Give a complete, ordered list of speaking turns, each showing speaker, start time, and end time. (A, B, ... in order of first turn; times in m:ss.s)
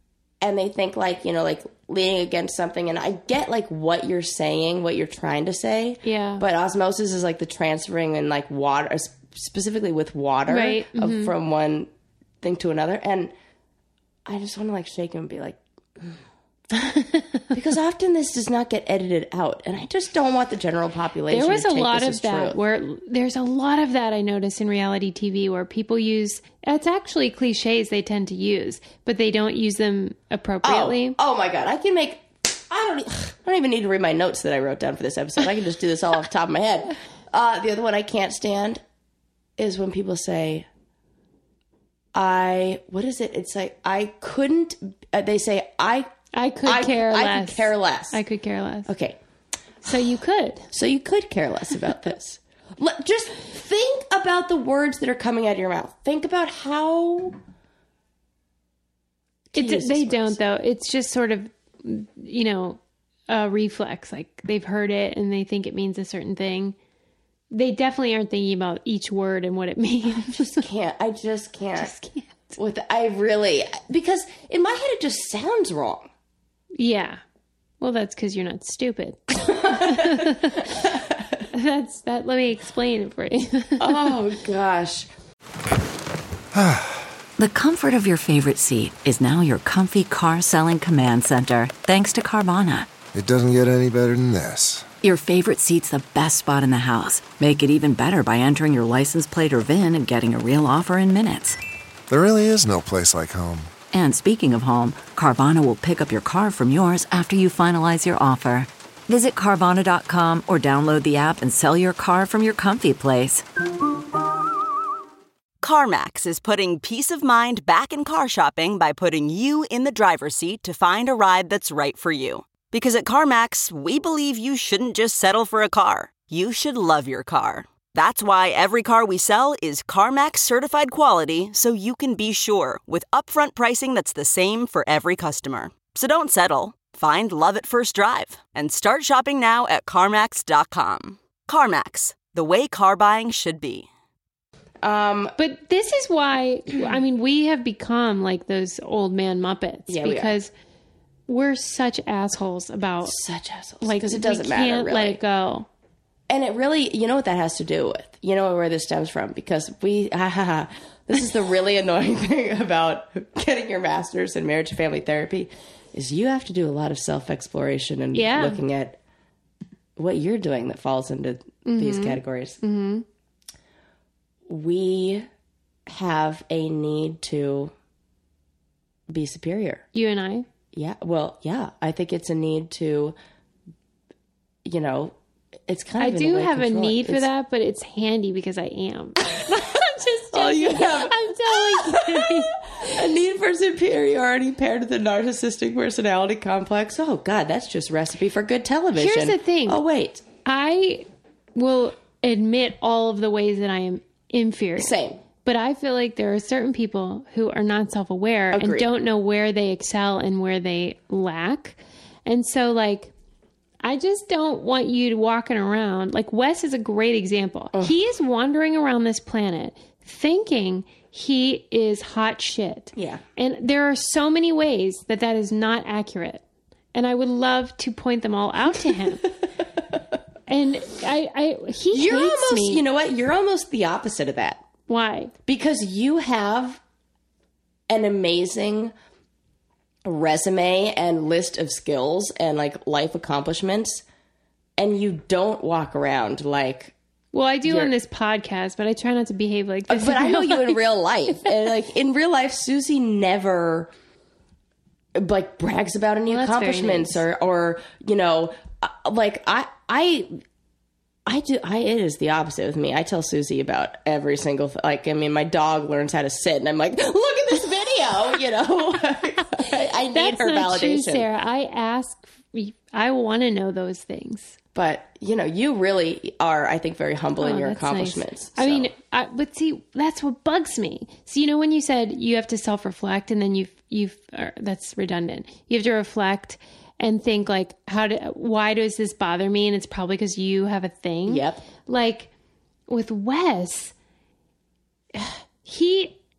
0:00.4-0:11.9 A
0:06.0-0:06.4 B
0:10.5-0:11.3 B
0:12.4-0:13.3 A
0:14.3-0:16.2 A
0:17.5-0:22.6 A
0:21.3-0:31.2 B
0:30.6-0:38.8 A
0:39.6-0:40.7 A
0:42.1-0:46.1 A
0:46.3-0:48.9 B
0:46.6-0:48.2 A
0:48.9-0:49.2 A
0:49.8-0:50.7 B
0:50.7-0:57.4 A
0:59.5-1:00.4 A
0:59.6-1:06.8 B
1:07.5-1:10.6 B
1:10.2-1:11.9 A
1:11.8-1:12.6 B
1:12.6-1:16.1 A
1:16.8-1:17.2 B
1:17.8-1:20.7 B
1:19.4-1:21.2 A
1:21.5-1:24.2 B
1:23.8-1:25.1 A
1:26.6-1:27.0 C
1:27.4-1:32.9 D
1:33.1-1:34.9 C
1:35.0-1:41.6 D
1:42.1-1:43.7 C
1:43.9-1:53.4 D
1:55.6-2:23.9 E
2:24.8-2:25.4 A
2:25.4-2:30.5 B
2:29.9-2:30.3 A
2:31.3-2:33.2 B
2:33.0-2:35.2 A
2:33.8-2:35.7 B
2:36.3-2:49.0 A
2:48.1-2:48.6 B
2:50.0-2:52.6 A
2:51.6-2:53.0 B
2:54.5-2:55.3 A
2:55.9-2:57.7 A
2:59.1-2:59.9 A
2:59.9-3:00.5 B
3:00.7-3:03.2 A
3:04.6-3:05.2 A
3:05.7-3:07.3 A
3:06.0-3:13.0 B
3:10.3-3:20.2 A
3:19.0-3:19.8 B
3:20.4-3:33.1 B
3:24.8-3:25.2 A
3:28.5-3:28.9 A
3:33.8-3:46.4 B
3:43.0-3:43.2 A
3:46.9-3:49.3 B
3:50.5-3:52.8 B
3:51.9-3:54.6 A
3:54.9-3:55.3 B
3:55.5-3:56.8 A
3:57.9-3:58.9 A
4:00.0-4:04.0 A
4:04.8-4:07.0 A
4:07.3-4:10.8 B
4:07.6-4:07.9 A
4:09.9-4:13.9 A
4:15.2-4:20.4 A
4:16.3-4:17.2 B
4:21.3-4:31.3 A
4:30.1-4:34.6 B
4:34.8-4:38.9 A
4:37.4-4:52.3 B
4:51.3-4:51.6 A
4:52.9-4:53.9 B
4:55.1-4:56.2 B